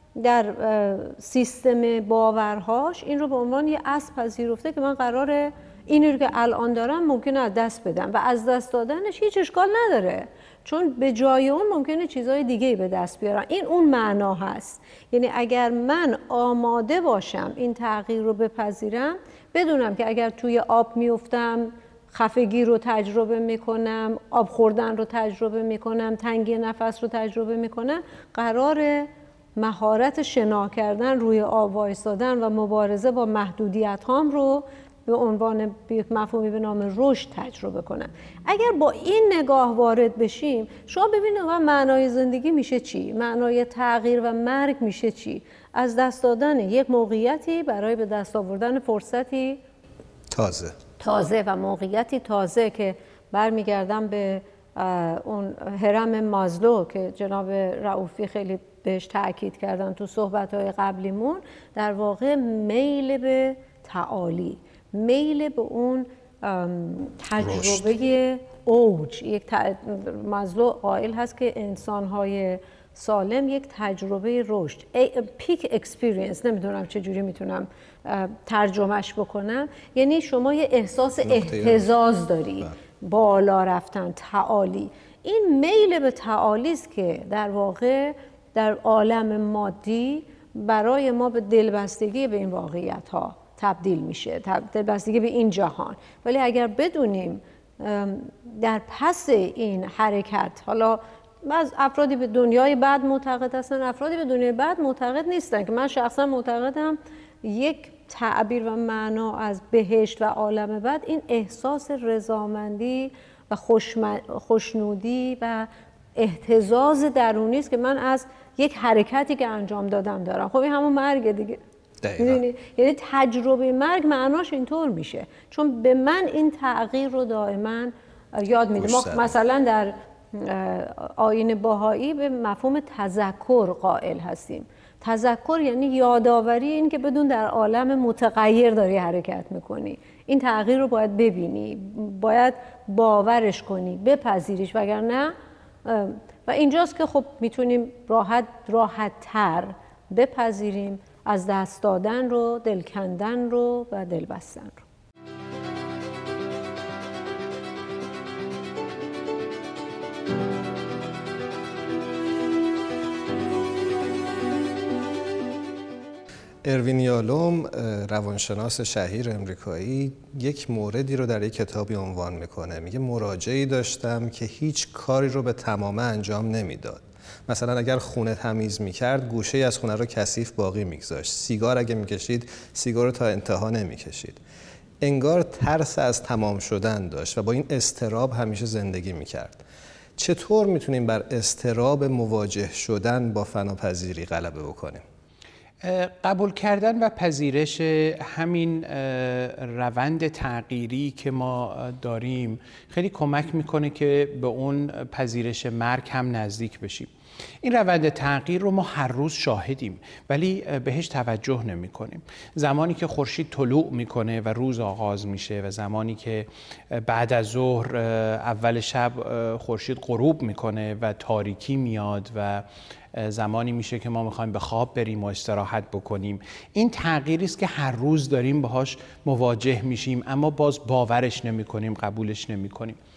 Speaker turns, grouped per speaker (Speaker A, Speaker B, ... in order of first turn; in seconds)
Speaker A: 0.2-49.6, 51.0-121.6, 122.2-145.3, 145.8-154.8
Speaker B: 50.3-50.8, 67.4-67.9, 81.2-81.9, 122.0-122.4, 128.8-129.3, 166.6-184.4, 185.0-189.6, 190.2-195.0
Speaker C: 195.8-207.1, 207.6-233.0